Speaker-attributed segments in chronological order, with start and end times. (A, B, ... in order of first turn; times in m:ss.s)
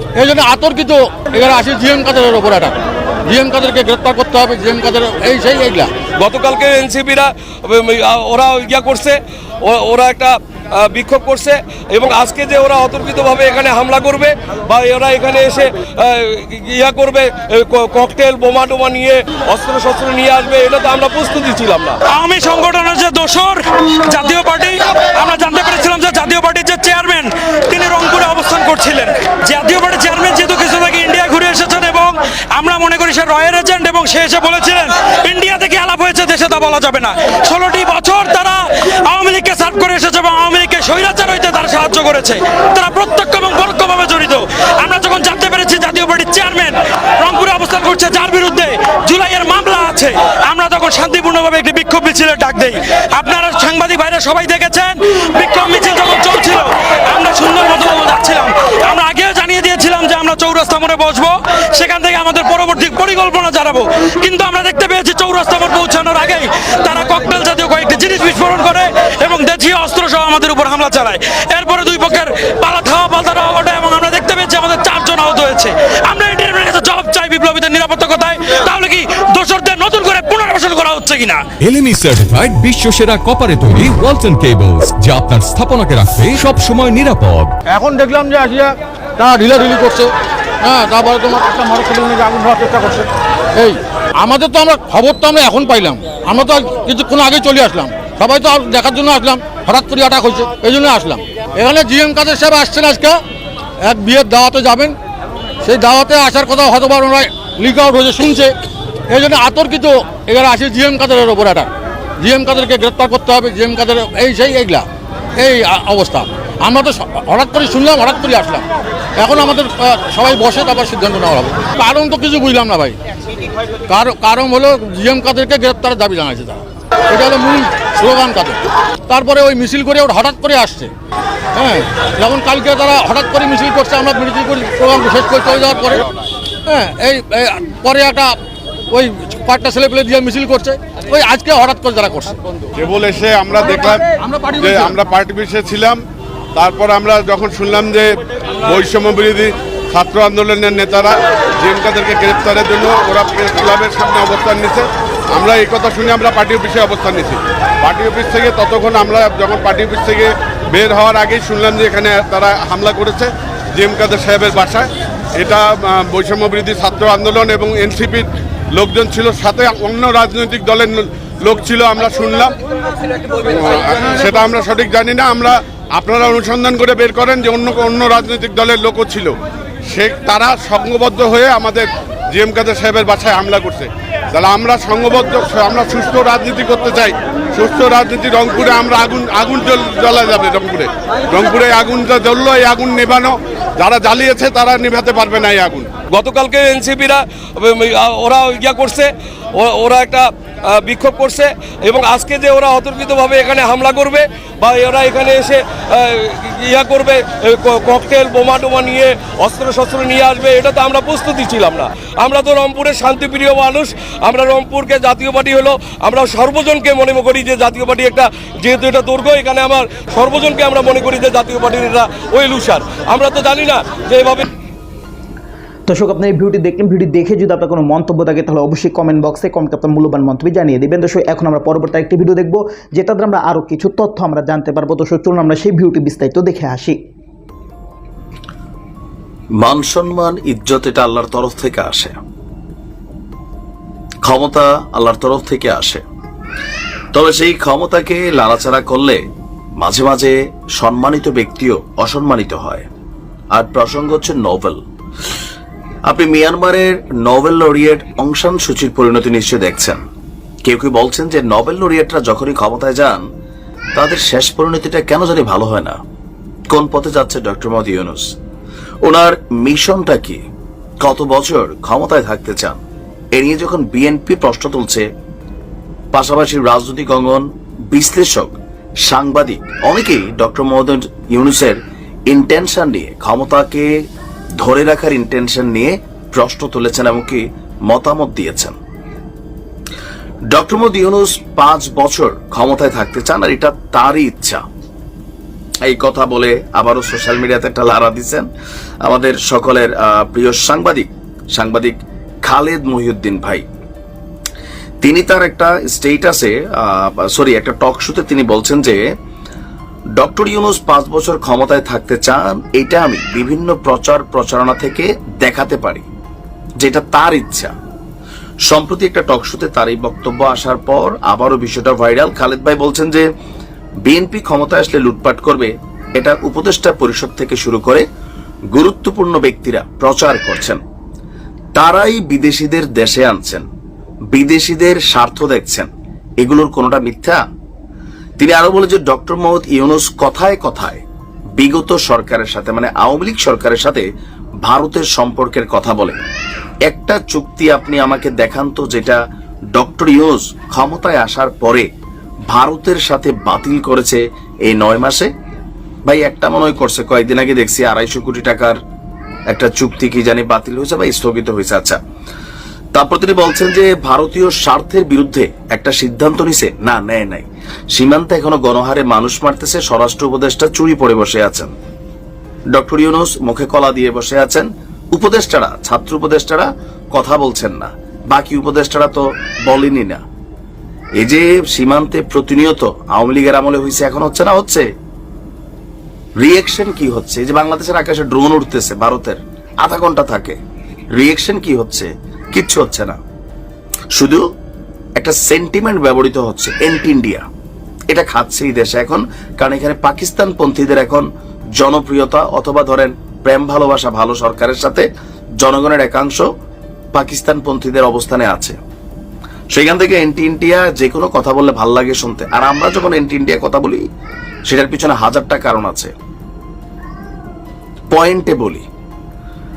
0:00.1-0:05.9 A
0:06.2-0:22.0 B
0:22.2-1:10.2 C
1:07.0-1:07.4 A
1:10.2-1:11.2 A
1:11.6-1:12.0 C
1:11.9-1:12.8 A
1:12.8-1:21.4 C
1:21.6-1:27.5 D
1:27.7-1:30.1 A
1:30.6-1:43.2 A
1:43.8-1:45.0 A
1:45.6-1:48.5 A
1:49.1-1:54.8 A
1:55.4-1:58.6 A
1:59.2-2:03.0 A
2:03.9-2:10.9 A
2:11.5-2:16.0 A
2:16.6-2:18.4 A
2:18.9-2:22.4 A
2:22.7-2:24.0 E
2:24.2-2:24.9 A
2:24.6-2:26.0 E
2:26.6-2:52.6 E
2:53.4-2:59.3 E
2:59.9-3:15.9 E
3:16.1-3:44.4 B
3:45.9-3:57.0 F
3:59.6-4:02.1 G
4:04.2-4:06.0 G
4:07.1-4:09.2 G
4:09.8-4:12.9 G
4:13.5-4:14.8 G
4:16.1-4:20.0 G
4:20.6-4:23.2 G
4:23.9-4:26.0 G
4:26.7-4:28.3 G
4:29.0-4:30.4 G
4:31.0-4:32.8 G
4:33.3-4:35.0 G
4:36.1-4:41.8 G
4:42.3-4:43.9 G
4:44.6-4:48.7 G
4:50.5-4:54.6 G
4:55.8-4:58.5 G
4:59.0-5:03.6 G
5:05.0-5:09.0 G
5:10.2-5:16.0 G
5:16.8-5:17.7 G
5:18.7-5:23.2 G
5:24.0-5:28.0 G
5:28.7-5:30.8 G
5:31.8-5:33.6 G
5:34.3-5:35.9 G
5:36.4-5:37.4 G
5:38.4-5:41.0 G
5:41.6-5:44.0 G
5:44.6-5:46.2 G
5:46.9-5:49.2 G
5:49.7-5:51.8 G
5:52.5-5:55.3 G
5:56.1-5:58.8 G
5:59.5-6:02.0 G
6:02.9-6:11.7 G
6:12.7-6:20.2 G
6:21.2-6:24.8 G
6:26.4-6:30.6 G
6:31.2-6:33.2 G
6:34.1-6:34.4 G
6:35.2-6:37.4 G
6:38.1-6:41.2 G
6:41.8-6:45.0 G
6:45.6-6:46.4 G
6:47.1-6:48.8 G
6:49.7-6:54.0 G
6:54.7-6:56.1 G
6:58.1-6:58.8 G